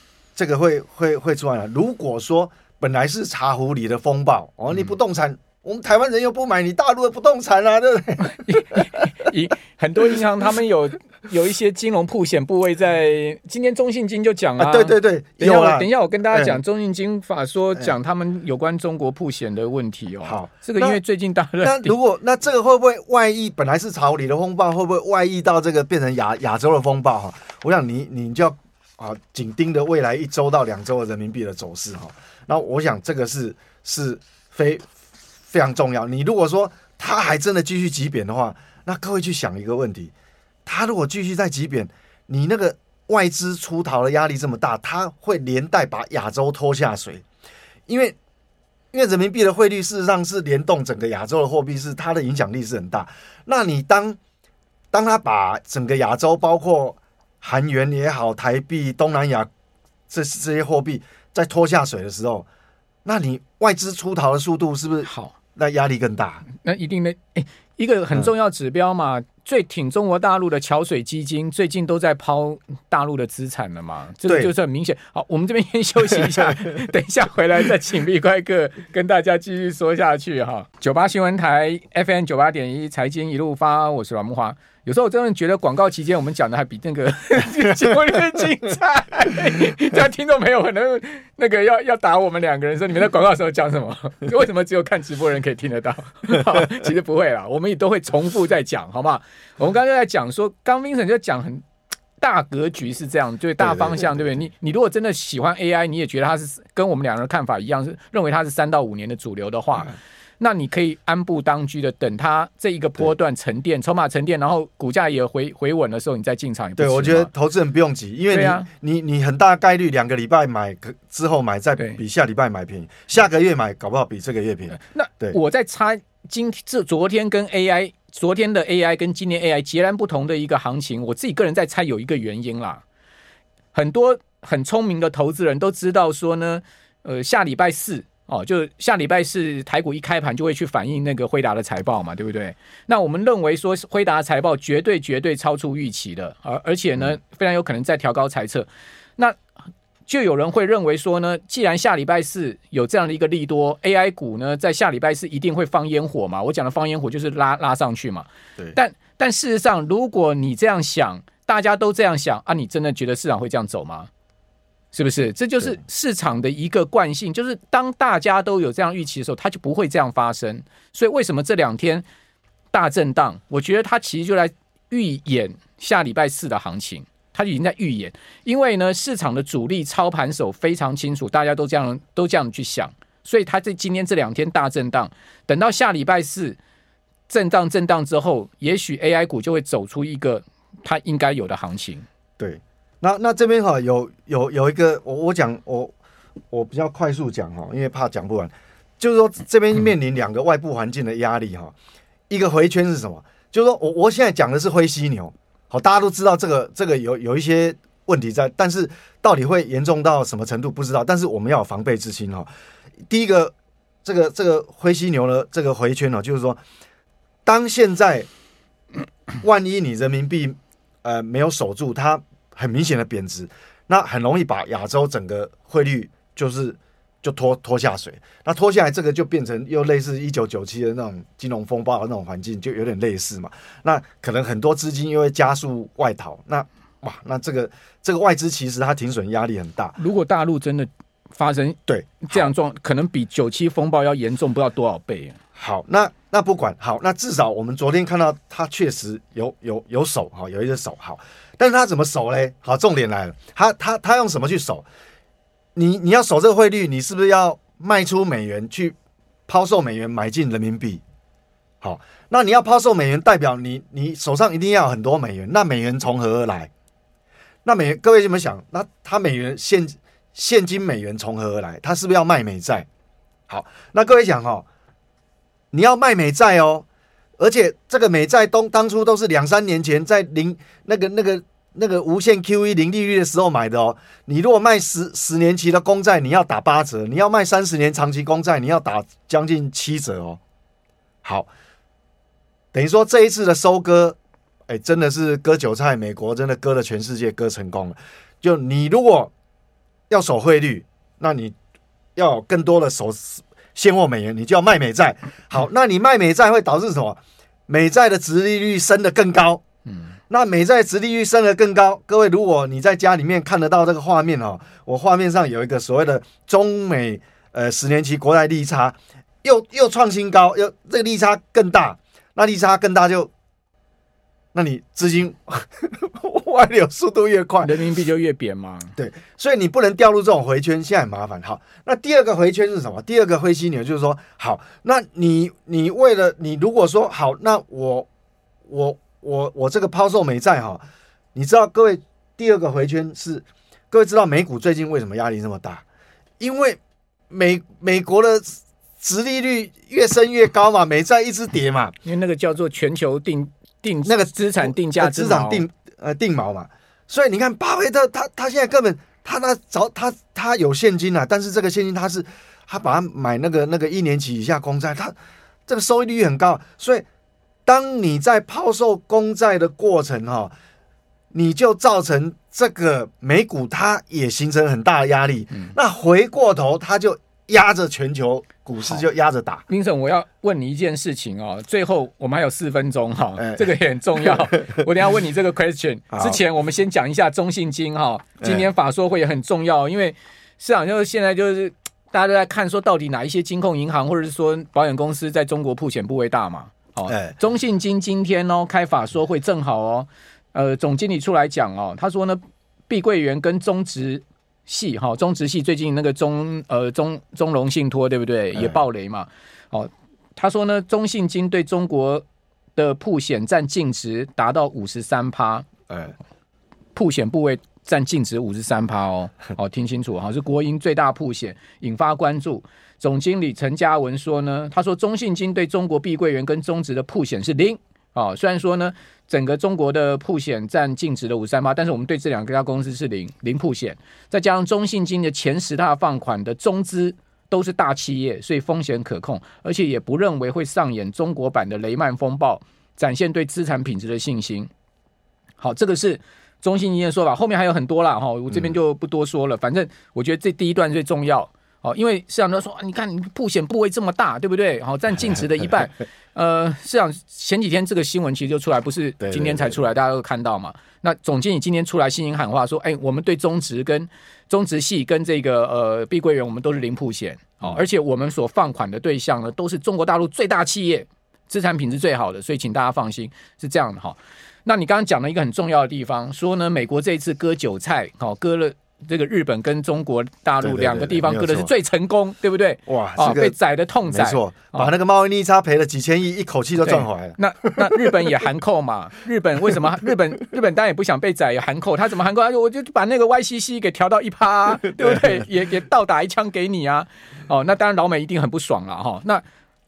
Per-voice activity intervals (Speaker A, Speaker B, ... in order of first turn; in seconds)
Speaker A: 0.3-9.1, 14.6-16.6, 20.2-21.0, 21.6-34.9, 35.5-40.1, 40.6-47.2, 47.9-48.1, 48.9-54.2, 54.9-59.5, 60.1-62.5, 63.0-66.4, 103.6-104.3, 116.8-125.4, 192.4-195.9, 196.5-201.7, 202.3-212.5, 213.1-216.6, 217.4-218.3, 219.4-240.0, 241.9-242.5, 245.6-254.8, 255.7-258.9, 259.5-261.0, 261.8-266.7, 267.6-272.9, 273.5-274.6, 275.7-276.8, 277.4-290.4, 292.7-294.2, 294.7-299.3, 300.1-301.5, 302.1-309.6, 310.3-323.3, 324.5-327.8, 329.0-338.1, 338.7-340.8, 341.3-345.8, 346.4-346.8, 347.3-351.9, 354.0-365.1, 365.7-367.0, 367.6-370.5, 371.3-379.6, 383.4-383.7, 384.2-384.8, 386.1-386.4, 388.4-388.7, 397.1-397.3, 408.5-408.8, 415.9-416.1, 459.2-459.8, 480.6-481.7, 482.9-483.5, 484.1-488.4, 495.0-495.4
Speaker B: 8.2-21.9, 65.0-65.3, 66.6-101.6, 102.2-117.3, 118.3-118.7, 124.7-132.8, 133.7-149.4, 150.1-164.1, 164.9-172.0, 172.7-186.6, 187.3-192.1, 240.0-245.4, 327.6-328.9, 352.0-355.6, 379.7-415.7, 416.9-444.7, 445.6-484.9, 486.8-499.4